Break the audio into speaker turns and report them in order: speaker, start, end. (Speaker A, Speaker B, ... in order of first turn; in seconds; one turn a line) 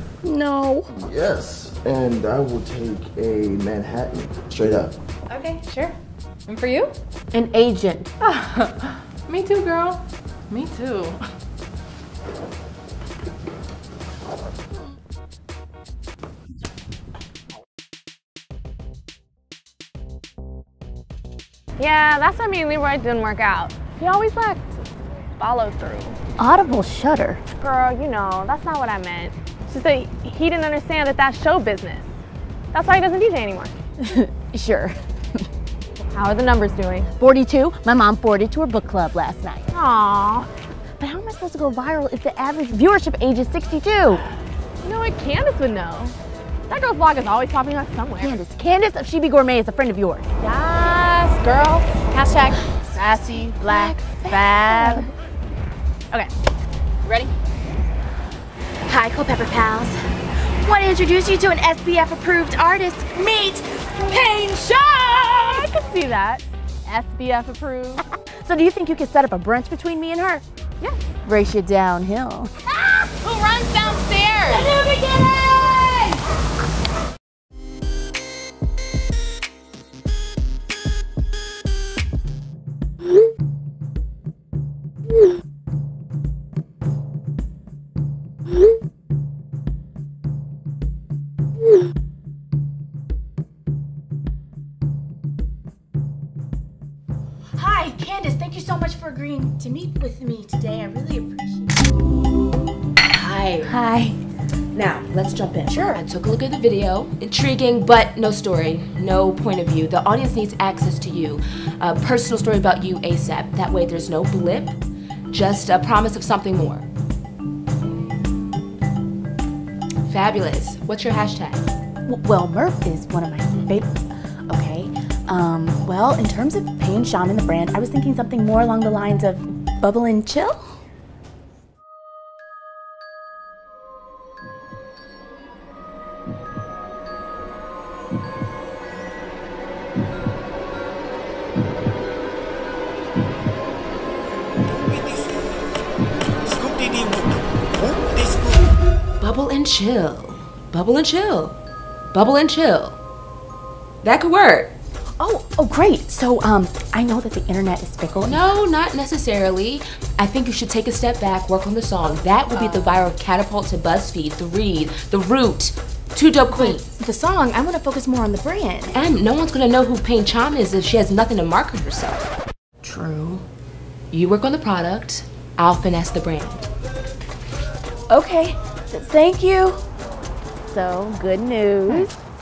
Speaker A: 0.2-0.9
Speaker B: 1.0-5.0
Speaker C: 5.3-6.0
Speaker C: 6.5-7.0
Speaker A: 7.3-8.1
Speaker C: 8.2-11.2
Speaker D: 21.8-24.8
Speaker D: 25.4-26.2
Speaker A: 26.4-27.4
Speaker D: 27.6-32.1
Speaker D: 32.7-33.7
Speaker A: 34.0-35.4
Speaker D: 36.1-37.1
Speaker A: 37.2-39.7
Speaker D: 39.7-40.5
Speaker A: 41.0-44.2
Speaker D: 44.8-46.2
Speaker D: 46.7-48.3
Speaker A: 48.2-50.3
Speaker D: 50.4-52.6
Speaker A: 52.6-55.1
Speaker D: 53.6-53.9
Speaker D: 54.6-54.9
Speaker A: 57.0-57.3
Speaker A: 58.9-60.0
Speaker A: 60.6-65.6
Speaker D: 64.7-68.0
Speaker A: 68.4-70.4
Speaker A: 71.2-72.5
Speaker D: 72.7-76.2
Speaker A: 97.5-101.7
Speaker E: 103.1-103.7
Speaker A: 103.6-104.2
Speaker E: 104.7-114.8
Speaker A: 105.6-106.0
Speaker E: 115.3-116.8
Speaker E: 120.1-121.6
Speaker A: 122.1-124.0
Speaker A: 124.5-130.7
Speaker E: 149.2-151.6
Speaker E: 152.1-153.0
Speaker E: 154.0-154.7
Speaker A: 155.2-158.4
Speaker E: 158.2-166.9
Speaker A: 162.5-163.0
Speaker A: 166.5-169.0
Speaker E: 168.9-172.3
Speaker A: 172.8-173.4
Speaker E: 174.1-176.6
Speaker A: 178.1-179.8
Speaker A: 180.7-182.2